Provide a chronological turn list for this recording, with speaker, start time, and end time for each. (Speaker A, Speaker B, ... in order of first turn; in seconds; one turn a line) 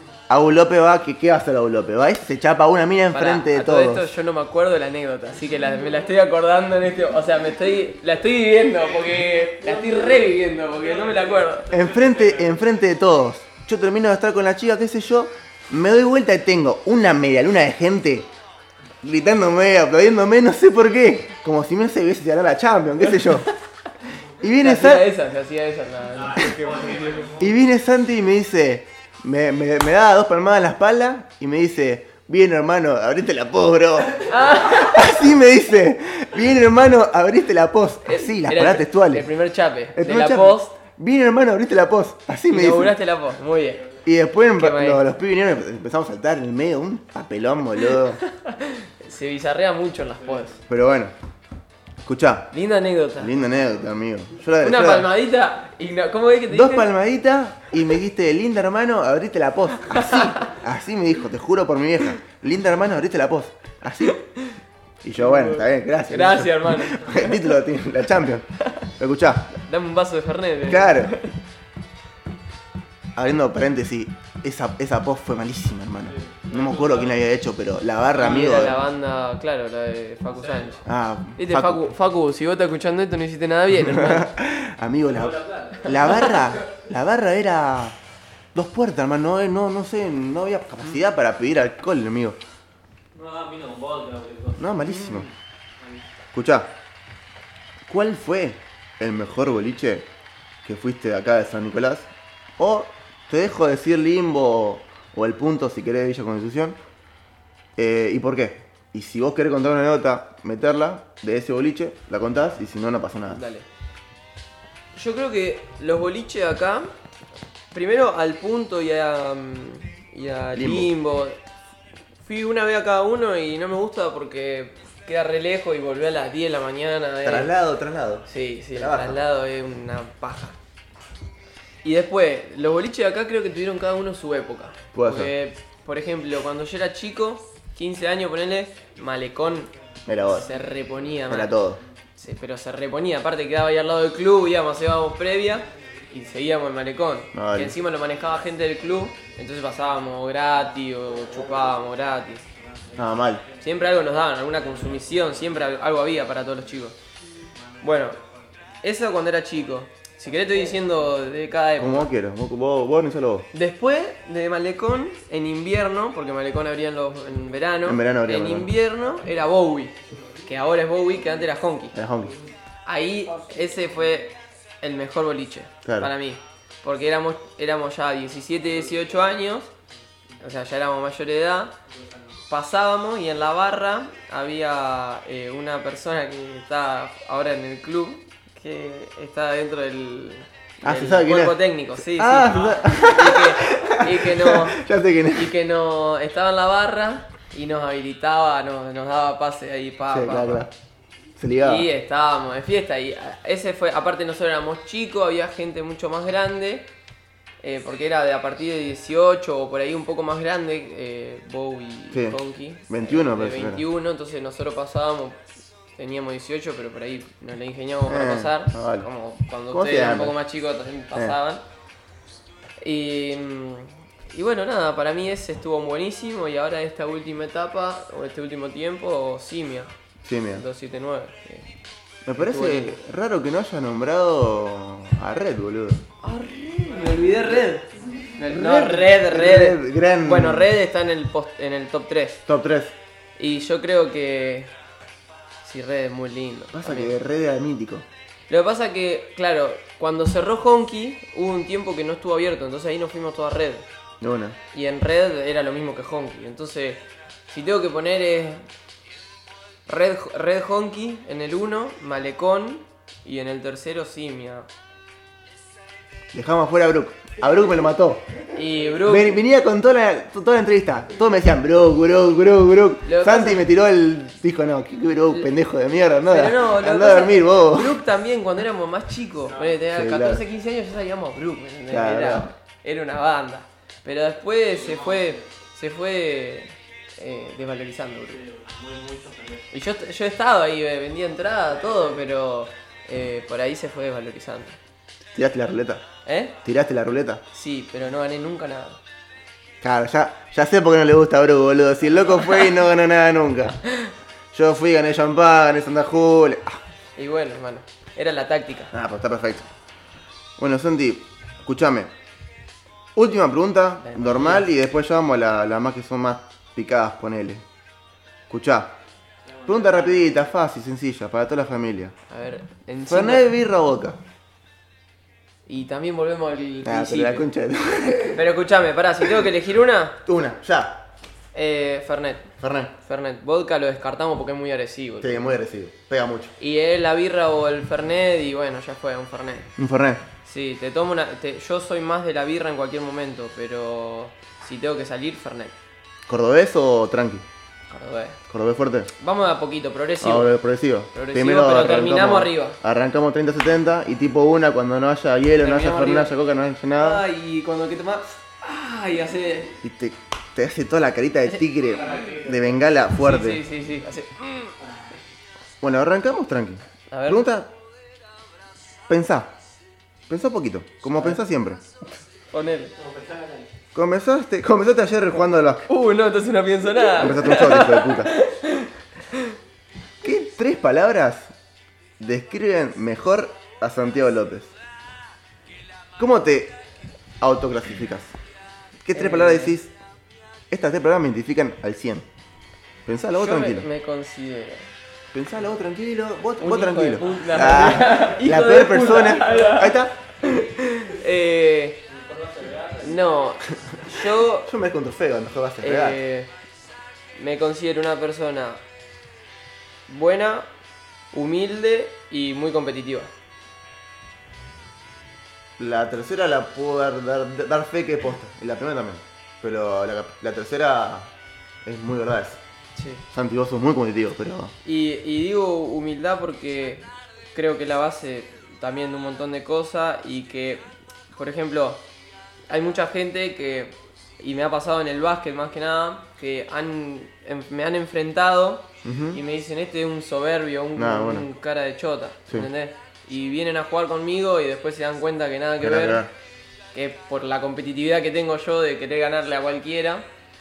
Speaker A: 0.3-4.1
Speaker B: 3.1-11.7
Speaker C: 8.8-12.6
Speaker A: 11.7-18.3
Speaker A: 19.0-23.5
Speaker B: 23.2-23.5
Speaker A: 24.4-25.1
Speaker B: 24.5-27.4
Speaker C: 26.1-27.6
Speaker A: 27.4-39.3
Speaker B: 34.2-35.1
Speaker B: 38.0-40.8
Speaker A: 39.9-43.0
Speaker B: 42.5-43.9
Speaker A: 44.0-48.2
Speaker B: 44.5-45.0
Speaker B: 48.2-50.6
Speaker C: 50.2-50.6
Speaker A: 50.7-51.1
Speaker A: 52.0-52.5
Speaker B: 52.5-53.5
Speaker A: 53.2-55.1
Speaker B: 54.6-56.9
Speaker A: 56.5-64.2
Speaker B: 59.9-60.5
Speaker B: 64.1-64.6
Speaker A: 65.0-68.5
Speaker B: 65.2-67.4
Speaker A: 69.0-69.5
Speaker B: 69.5-71.3
Speaker A: 70.7-71.2
Speaker A: 73.2-78.8
Speaker C: 76.1-77.2
Speaker B: 78.2-80.8
Speaker C: 80.3-80.8
Speaker A: 80.8-81.9
Speaker B: 81.4-84.3
Speaker A: 83.7-88.0
Speaker C: 85.1-86.5
Speaker A: 88.5-92.4
Speaker C: 93.1-96.0
Speaker A: 94.6-95.3
Speaker A: 96.3-96.7
Speaker A: 97.9-100.1
Speaker A: 100.6-106.8
Speaker A: 107.8-113.4
Speaker B: 113.3-113.7
Speaker B: 115.0-116.9
Speaker B: 117.7-121.4
Speaker A: 120.5-120.9
Speaker B: 122.2-127.5
Speaker A: 127.2-129.2
Speaker B: 128.3-130.6
Speaker B: 131.8-139.7
Speaker A: 134.9-135.3
Speaker A: 140.1-140.5
Speaker B: 140.2-141.6
Speaker A: 141.3-141.8
Speaker B: 142.2-152.4
Speaker C: 145.7-146.2
Speaker A: 147.3-147.8
Speaker C: 148.1-156.8
Speaker A: 153.0-153.4
Speaker B: 153.6-157.0
Speaker C: 157.5-158.8
Speaker B: 157.8-158.2
Speaker B: 158.8-162.1
Speaker C: 160.3-161.2
Speaker A: 161.8-163.5
Speaker B: 163.5-172.0
Speaker A: 167.9-168.7
Speaker C: 170.1-170.5
Speaker C: 171.1-171.4
Speaker A: 171.9-172.3
Speaker C: 172.2-172.5
Speaker B: 172.8-179.7
Speaker A: 175.8-176.1
Speaker C: 178.7-179.1
Speaker B: 180.4-181.8
Speaker C: 181.9-182.4
Speaker B: 182.5-194.8
Speaker A: 190.8-195.5
Speaker C: 192.5-192.8
Speaker B: 195.3-200.7
Speaker A: 200.1-200.7
Speaker A: 201.4-201.9
Speaker B: 201.6-206.9
Speaker B: 207.6-221.6
Speaker A: 212.1-213.8
Speaker A: 218.1-219.1
Speaker A: 219.7-220.4
Speaker B: 222.8-229.9
Speaker A: 230.2-230.7
Speaker B: 230.5-231.7
Speaker A: 232.2-236.1
Speaker B: 232.4-233.0
Speaker B: 236.2-242.4
Speaker A: 238.5-240.7
Speaker A: 242.5-243.0
Speaker B: 243.4-244.7
Speaker B: 245.6-247.2
Speaker A: 246.7-248.1
Speaker B: 248.5-253.9
Speaker A: 254.2-254.6
Speaker B: 254.7-258.7
Speaker B: 259.9-264.7
Speaker A: 266.3-268.3
Speaker B: 268.5-269.4
Speaker A: 269.0-278.0
Speaker B: 273.1-273.6
Speaker B: 276.2-288.4
Speaker C: 279.5-279.9
Speaker A: 279.9-280.4
Speaker A: 281.9-282.5
Speaker C: 284.7-285.5
Speaker C: 288.3-289.7
Speaker B: 289.7-294.8
Speaker C: 291.7-292.2
Speaker A: 295.3-296.0
Speaker B: 296.2-296.6
Speaker A: 296.6-297.4
Speaker B: 297.5-299.0
Speaker A: 299.8-303.8
Speaker A: 304.5-306.8
Speaker B: 307.2-308.9
Speaker A: 308.9-309.7
Speaker A: 310.6-312.1
Speaker A: 313.1-317.6
Speaker B: 314.0-314.7
Speaker A: 318.5-319.0
Speaker C: 319.4-320.5
Speaker A: 319.7-322.1
Speaker B: 322.3-323.5
Speaker A: 323.1-324.2
Speaker B: 325.7-327.5
Speaker A: 326.8-328.4
Speaker B: 328.3-330.2
Speaker A: 329.2-329.5
Speaker A: 330.2-331.1
Speaker B: 331.5-335.5
Speaker A: 332.6-332.9
Speaker A: 335.2-336.5
Speaker B: 336.6-339.7
Speaker A: 339.8-340.2
Speaker B: 340.4-345.7
Speaker A: 346.3-347.4
Speaker B: 347.9-348.4
Speaker A: 348.5-349.1
Speaker B: 349.2-350.6
Speaker A: 350.2-357.2
Speaker B: 351.1-352.8
Speaker B: 355.6-356.3
Speaker B: 357.0-359.8
Speaker A: 359.8-363.6
Speaker B: 361.5-362.2
Speaker C: 361.8-362.8
Speaker B: 363.2-364.8
Speaker C: 364.8-365.1
Speaker A: 365.8-367.7
Speaker B: 367.1-367.4
Speaker A: 369.1-369.5
Speaker A: 370.3-371.8
Speaker B: 372.5-372.9
Speaker C: 373.0-373.7
Speaker A: 373.9-375.9
Speaker B: 375.9-379.6
Speaker A: 377.1-378.3
Speaker A: 380.2-381.5
Speaker A: 382.2-384.7
Speaker A: 386.2-386.8
Speaker A: 387.4-388.4
Speaker A: 389.0-389.9
Speaker B: 389.1-389.8
Speaker A: 390.7-392.3
Speaker A: 393.1-393.9
Speaker B: 393.4-394.9
Speaker A: 395.3-400.1
Speaker B: 396.6-402.0
Speaker C: 397.3-398.3
Speaker C: 399.4-399.7
Speaker C: 402.1-404.0
Speaker B: 403.0-404.7
Speaker A: 404.6-406.2
Speaker B: 405.8-406.5
Speaker B: 407.4-408.8
Speaker B: 410.1-410.7
Speaker B: 411.3-413.3
Speaker A: 415.8-421.3
Speaker A: 421.9-422.6
Speaker B: 422.9-423.2
Speaker A: 423.3-424.7
Speaker B: 424.9-432.0
Speaker B: 432.7-446.2
Speaker A: 439.0-439.4
Speaker A: 440.9-441.5
Speaker A: 445.8-446.3
Speaker B: 446.9-450.3